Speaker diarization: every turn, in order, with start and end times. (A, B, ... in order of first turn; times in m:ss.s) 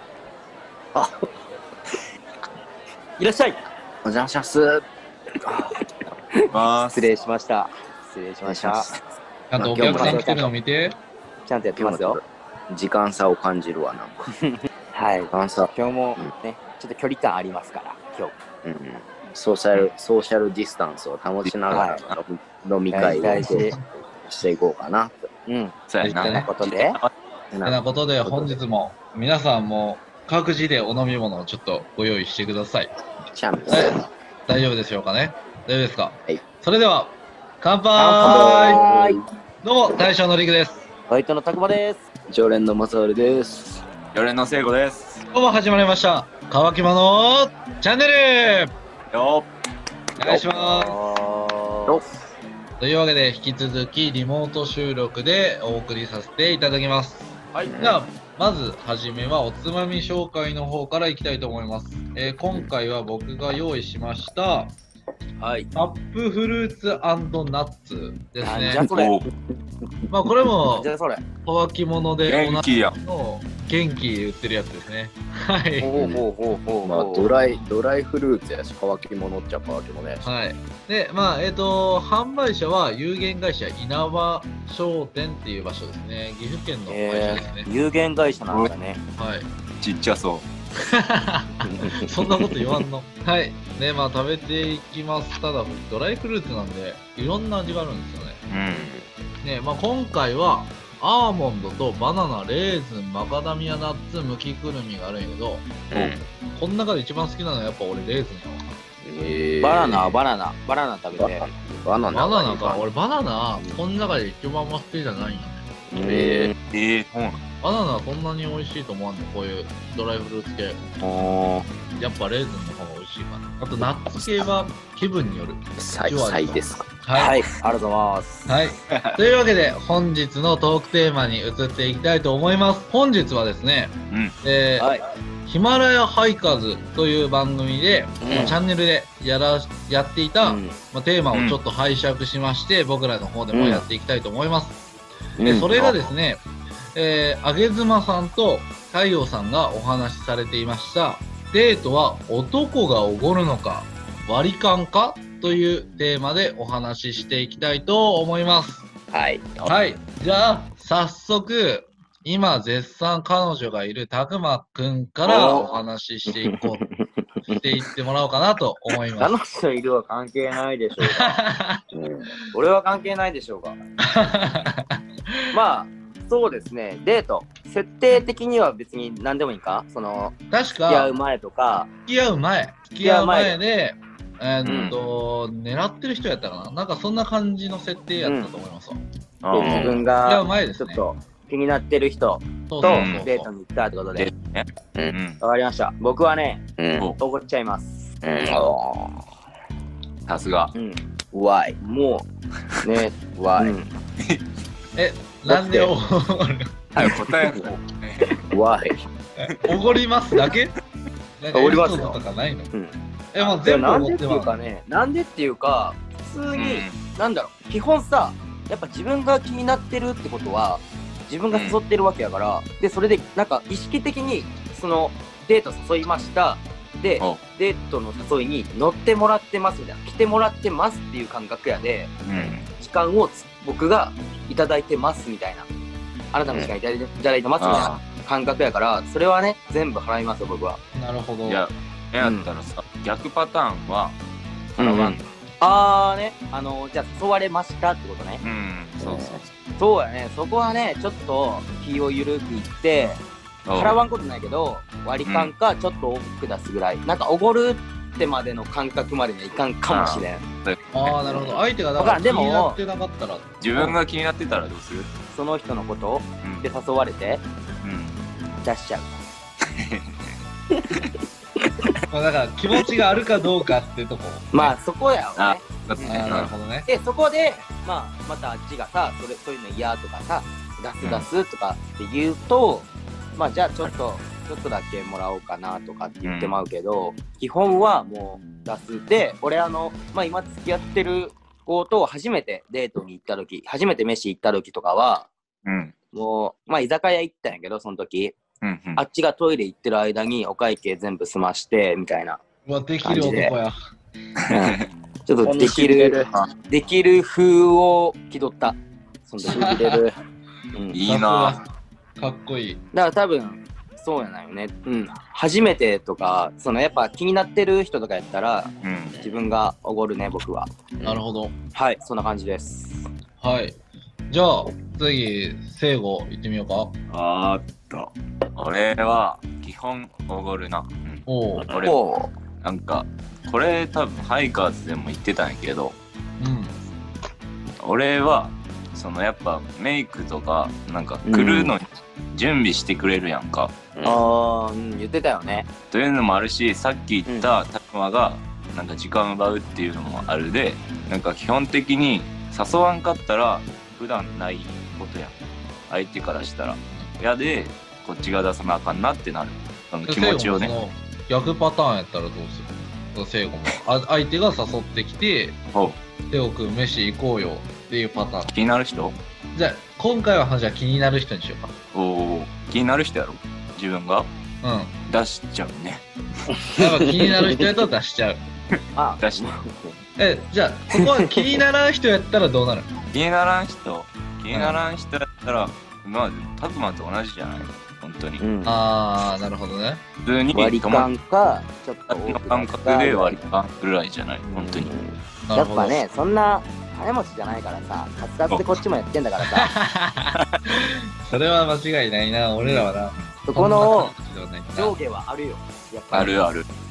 0:03.2-0:03.6 A
0:04.0-0:04.8 B
0:06.3-0:08.9 A
0:06.5-0:07.1 C
0:08.4-0:08.9 B
0:09.5-0:11.0 D
0:09.6-0:10.2 B
0:09.7-0:10.5 A
0:11.5-0:12.2 A
0:11.8-0:14.2 B
0:14.4-0:18.3 A
0:15.3-0:16.3 B
0:18.6-0:25.3 B
0:21.4-0:22.2 C
0:21.7-0:22.0 A
0:22.9-0:23.8 A
0:23.4-0:23.7 D
0:25.5-0:27.0 A
0:25.9-0:27.1 C
0:26.0-0:26.5 D
0:27.5-0:28.6 B
0:27.6-0:32.9 D
0:33.3-0:34.0 B
0:33.7-0:34.0 D
0:34.5-0:38.8 D
0:38.0-0:39.2 A
0:38.2-0:39.2 B
0:39.6-0:40.8 D
0:41.1-0:42.0 A
0:42.3-0:43.8 B
0:44.1-0:45.2 C
0:45.3-0:48.7 D
0:49.1-0:49.5 C
0:50.2-0:51.0 D
0:50.3-0:52.0 A
0:51.9-0:52.2 B
0:52.8-1:04.8 D
0:57.5-0:57.8 A
0:57.6-0:58.0 B
1:05.4-1:05.7 A
1:05.7-1:08.9 D
1:08.4-1:09.2 A
1:08.9-1:09.3 C
1:10.1-1:10.9 D
1:10.6-1:11.3 A
1:11.4-1:16.0 D
1:12.3-1:13.0 C
1:15.8-1:17.3 A
1:16.8-1:20.3 B
1:20.2-1:27.7 D
1:26.9-1:29.0 A
1:29.2-1:29.5 D
1:29.8-1:30.5 C
1:30.8-1:38.4 D
1:38.5-1:38.9 C
1:38.7-1:39.1 B
1:39.4-1:48.7 D
1:45.9-1:46.2 B
1:49.0-1:50.2 B
1:49.6-1:51.5 A
1:51.2-1:52.9 B
1:52.1-1:55.7 D
1:55.9-1:56.5 A
1:56.0-1:56.5 B
1:56.7-1:57.4 C
1:57.6-2:00.9 D
2:01.0-2:01.7 A
2:01.9-2:07.4 D
2:04.2-2:04.4 B
2:05.8-2:06.9 B
2:07.1-2:08.6 A
2:08.5-2:14.9 D
2:14.8-2:15.0 A
2:15.4-2:24.8 D
2:18.2-2:18.6 B
2:18.2-2:18.6 A
2:20.4-2:20.8 A
2:21.3-2:21.6 C
2:23.5-2:23.8 B
2:25.4-2:26.0 B
2:25.4-2:25.7 A
2:25.5-2:26.4 D
2:27.0-2:38.9 D
2:39.1-2:39.7 B
2:39.6-2:46.8 D
2:45.3-2:45.7 A
2:46.3-2:47.6 A
2:47.5-2:49.3 D
2:49.2-2:51.4 A
2:51.1-2:51.8 D
2:51.9-2:52.3 B
2:52.5-2:53.8 A
2:54.0-2:55.5 D
2:55.5-3:01.9 A
3:00.5-3:01.1 D
3:02.1-3:09.0 D
3:03.0-3:03.6 A
3:04.7-3:04.9 A
3:04.7-3:05.0 C
3:08.2-3:08.5 A
3:09.4-3:10.0 C
3:09.5-3:14.3 A
3:09.6-3:10.0 B
3:10.2-3:11.0 D
3:12.7-3:13.3 D
3:12.8-3:13.5 C
3:14.2-3:15.4 C
3:15.4-3:18.1 A
3:16.8-3:17.1 B
3:18.2-3:19.2 B
3:20.3-3:20.7 C
3:20.8-3:21.0 A
3:21.3-3:21.8 B
3:21.8-3:22.3 A
3:22.8-3:23.9 A
3:23.4-3:23.8 B
3:25.0-3:26.7 D
3:25.5-3:25.9 B
3:27.0-3:27.6 A
3:27.0-3:28.4 C
3:28.5-3:29.0 B
3:29.6-3:30.7 D
3:31.4-3:32.7 D
3:31.5-3:32.2 A
3:32.7-3:55.7 A
3:33.3-3:34.5 D
3:36.5-3:37.0 C
3:41.5-3:41.8 C
3:52.2-3:52.7 C
3:56.3-4:00.8 A
3:57.6-3:57.9 C
4:01.0-4:01.6 D
4:01.4-4:04.2 C
4:02.2-4:02.5 A
4:04.7-4:05.2 C
4:04.8-4:08.4 A
4:08.4-4:09.5 C
4:09.0-4:09.4 B
4:09.8-4:13.2 A
4:13.7-4:14.0 C
4:13.8-4:20.4 A
4:15.2-4:15.5 C
4:19.9-4:21.6 C
4:20.9-4:23.5 D
4:22.0-4:22.8 A
4:23.6-4:25.1 C
4:25.3-4:27.4 A
4:27.8-4:28.2 C
4:28.6-4:29.2 A
4:29.9-4:30.4 C
4:32.1-4:34.8 D
4:34.5-4:36.3 A
4:35.4-4:36.5 C
4:36.0-4:36.9 D
4:36.9-4:55.3 A
4:41.0-4:41.3 C
4:46.2-4:46.6 C
4:55.6-4:55.9 C
4:56.1-4:58.4 A
4:58.6-4:59.0 C
4:59.0-5:02.4 A
5:02.7-5:03.8 D
5:03.0-5:03.6 A
5:04.5-5:09.8 A
5:05.4-5:06.3 B
5:09.4-5:10.2 B
5:09.5-5:10.0 D
5:10.7-5:11.0 A
5:10.9-5:11.6 C
5:11.0-5:11.6 D
5:12.2-5:12.8 D
5:12.9-5:20.7 A
5:18.8-5:19.2 C
5:21.0-5:21.6 D
5:21.7-5:23.1 A
5:23.4-5:23.8 D
5:24.3-5:26.9 D
5:27.1-5:32.0 C
5:31.3-5:31.8 D
5:31.8-5:32.3 A
5:32.6-5:36.0 C
5:36.4-5:36.8 D
5:37.8-5:43.7 C
5:41.3-5:41.7 A
5:44.0-5:44.2 B
5:44.0-5:45.7 A
5:45.9-5:55.4 C
5:47.3-5:47.5 A
5:55.9-6:00.8 C
6:00.0-6:05.6 D
6:06.3-6:08.5 D
6:08.5-6:09.2 C
6:09.5-6:11.7 D
6:11.9-6:14.3 C
6:14.6-6:15.0 D
6:15.1-6:16.0 C
6:16.8-6:18.4 D
6:19.0-6:19.9 A
6:19.2-6:19.5 C
6:20.2-6:22.9 D
6:21.0-6:21.3 A
6:23.1-6:28.4 C
6:24.5-6:24.8 D
6:28.4-6:28.8 A
6:28.6-6:30.0 D
6:30.2-6:31.1 C
6:30.5-6:33.5 A
6:32.1-6:34.9 C
6:34.6-6:34.9 B
6:34.6-6:39.7 A
6:35.5-6:36.0 D
6:38.5-6:38.8 C
6:39.6-6:44.9 D
6:43.5-6:44.1 A
6:44.8-6:46.4 A
6:46.1-6:46.7 C